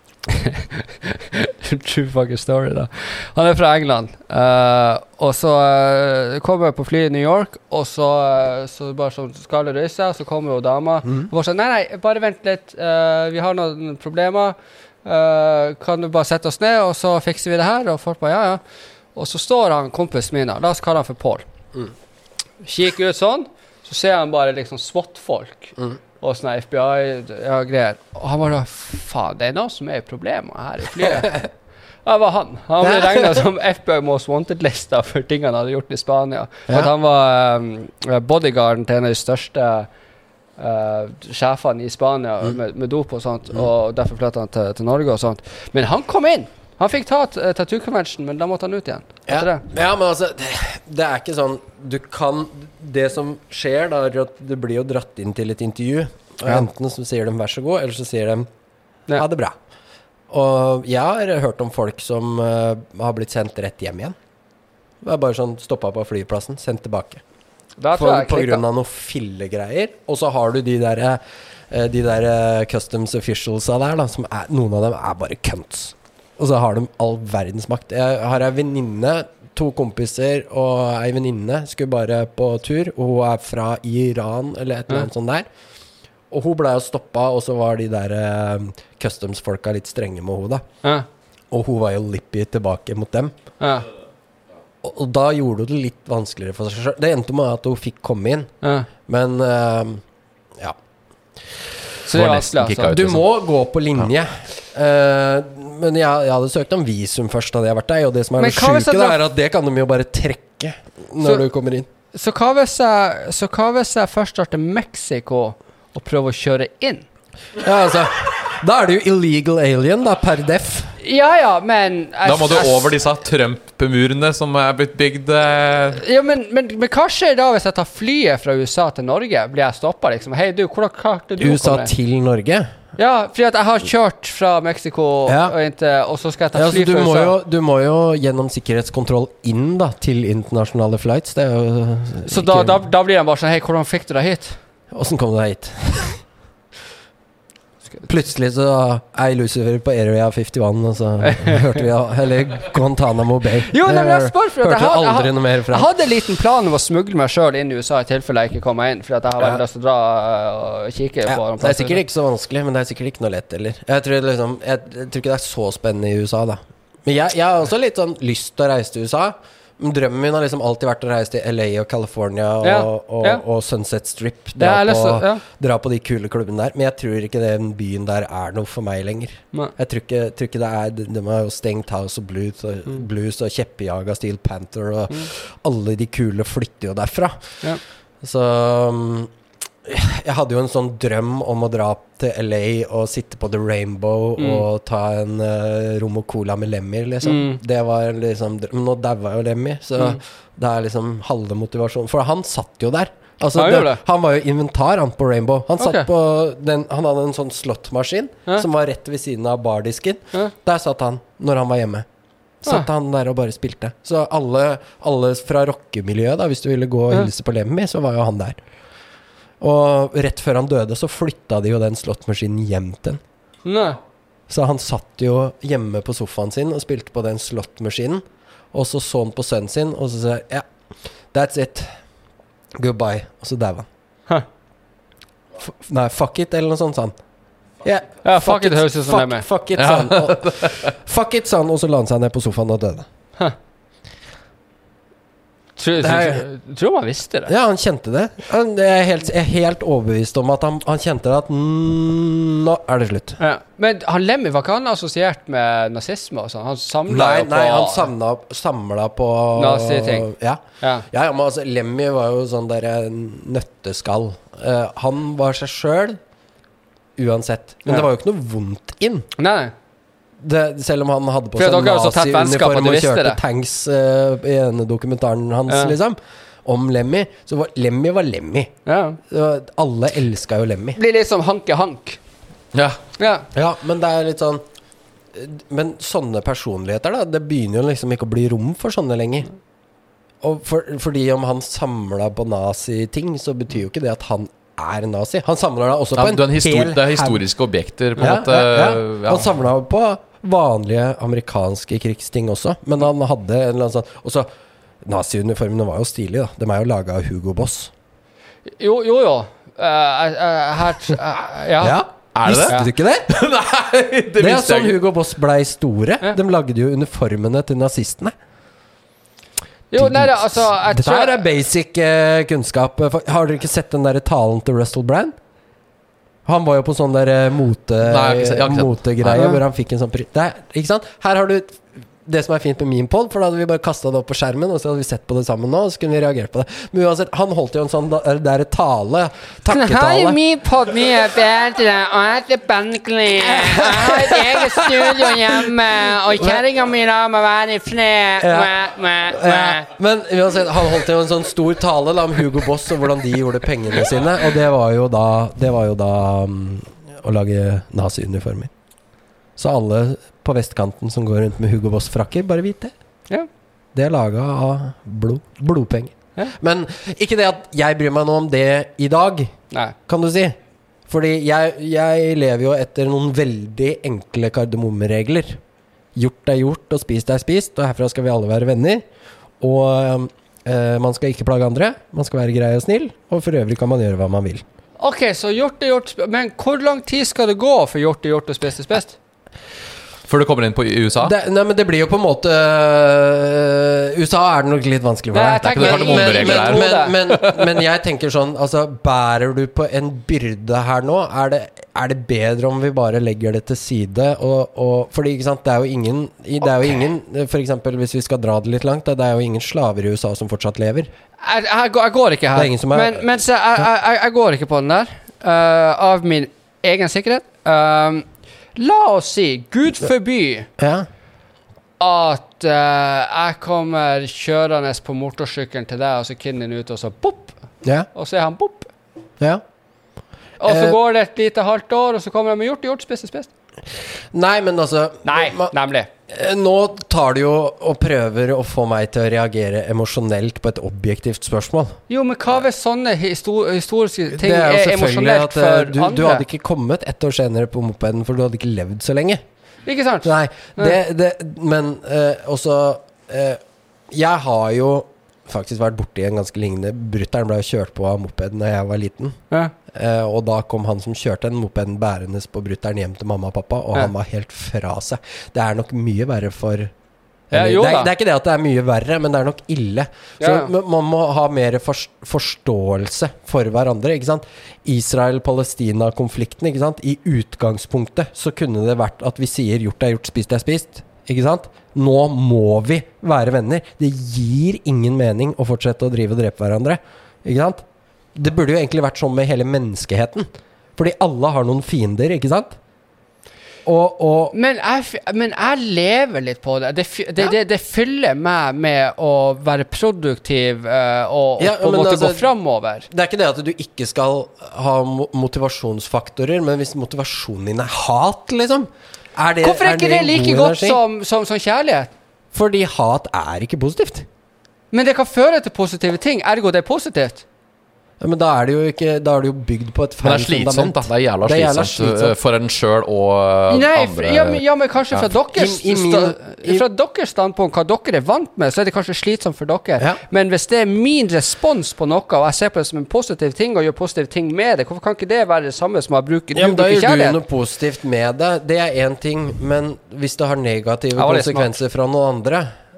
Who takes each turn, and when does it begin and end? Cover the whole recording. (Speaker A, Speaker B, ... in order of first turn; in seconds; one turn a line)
Speaker A: 0.2-18.6
Speaker A: 19.1-21.4
Speaker A: 22.6-31.4
Speaker B: 31.0-31.3
Speaker A: 32.0-39.9
Speaker B: 32.8-33.4
Speaker A: 40.6-49.6
Speaker B: 49.3-58.5
Speaker B: 59.1-59.5
Speaker B: 60.3-64.2
Speaker B: 65.0-67.2
Speaker A: 67.8-68.6
Speaker B: 67.9-85.5
Speaker B: 86.3-90.6
Speaker B: 91.5-93.3
Speaker A: 93.6-93.8
Speaker B: 94.8-98.5
Speaker A: 98.6-98.9
Speaker B: 99.1-100.0
Speaker A: 102.1-103.0
Speaker C: 102.1-103.2
Speaker B: 102.8-111.9
Speaker A: 108.4-109.2
Speaker A: 112.1-117.0
Speaker B: 117.6-120.9
Speaker A: 121.0-123.0
Speaker C: 122.2-126.0
Speaker A: 126.0-131.9
Speaker B: 131.4-132.7
Speaker A: 133.0-137.3
Speaker B: 135.3-135.6
Speaker B: 136.5-142.8
Speaker A: 142.2-144.6
Speaker B: 144.9-146.2
Speaker B: 148.0-155.9
Speaker A: 151.2-151.8
Speaker A: 153.7-162.0
Speaker B: 161.3-187.6
Speaker A: 172.6-173.4
Speaker A: 174.6-175.4
Speaker B: 188.2-189.3
Speaker B: 189.8-212.1
Speaker A: 194.4-194.6
Speaker A: 197.2-197.6
Speaker A: 203.5-204.0
Speaker A: 205.8-206.1
Speaker B: 212.6-218.6
Speaker B: 219.6-223.2
Speaker A: 223.6-224.0
Speaker B: 224.5-230.7
Speaker B: 231.3-231.9
Speaker B: 232.8-233.9
Speaker B: 235.6-237.1
Speaker B: 237.8-243.1
Speaker A: 238.2-239.4
Speaker C: 239.8-240.8
Speaker A: 245.8-247.5
Speaker B: 246.0-246.4
Speaker B: 247.5-253.4
Speaker A: 253.4-258.1
Speaker B: 257.1-266.2
Speaker A: 259.6-260.3
Speaker A: 260.8-261.1
Speaker B: 267.2-269.3
Speaker A: 269.4-269.7
Speaker B: 270.4-278.7
Speaker A: 271.6-273.4
Speaker A: 275.7-275.9
Speaker A: 278.9-279.2
Speaker B: 279.3-281.0
Speaker A: 280.9-282.2
Speaker C: 282.7-283.0
Speaker A: 283.2-283.5
Speaker B: 283.5-284.6
Speaker B: 285.3-289.5
Speaker B: 290.4-297.4
Speaker C: 296.2-299.5
Speaker B: 298.2-304.5
Speaker B: 305.0-307.9
Speaker A: 308.8-312.0
Speaker B: 311.8-313.4
Speaker C: 312.3-315.0
Speaker B: 314.4-318.3
Speaker A: 319.9-321.4
Speaker B: 319.9-325.3
Speaker B: 326.4-340.4
Speaker C: 328.0-329.6
Speaker A: 339.7-349.9
Speaker B: 343.5-345.7
Speaker B: 348.4-348.7
Speaker B: 349.3-358.7
Speaker B: 359.6-362.9
Speaker B: 363.9-369.5
Speaker B: 370.1-370.6
Speaker B: 371.1-375.6
Speaker B: 376.1-379.0
Speaker B: 379.6-384.6
Speaker A: 385.0-389.2
Speaker C: 390.3-391.3
Speaker B: 391.2-411.1
Speaker A: 395.3-397.2
Speaker C: 395.6-397.5
Speaker A: 411.4-420.7
Speaker B: 412.5-413.2
Speaker B: 420.8-421.1
Speaker A: 422.0-427.6
Speaker A: 428.1-428.9
Speaker A: 430.6-433.5
Speaker B: 430.6-431.0
Speaker B: 434.3-435.7
Speaker A: 435.2-436.1
Speaker B: 436.3-442.0
Speaker A: 442.1-446.4
Speaker B: 444.3-449.4
Speaker A: 449.9-450.9
Speaker B: 450.2-459.4
Speaker B: 459.9-466.9
Speaker B: 467.5-492.8
Speaker A: 467.5-468.1
Speaker A: 470.4-470.7
Speaker B: 493.8-494.5
Speaker A: 494.5-503.1
Speaker B: 501.6-502.5
Speaker B: 503.1-511.0
Speaker A: 509.6-512.1
Speaker B: 512.5-514.3
Speaker A: 514.9-517.4
Speaker B: 518.2-522.4
Speaker C: 520.2-524.6
Speaker A: 523.7-537.4
Speaker B: 525.5-526.9
Speaker B: 536.5-542.7
Speaker A: 541.1-541.7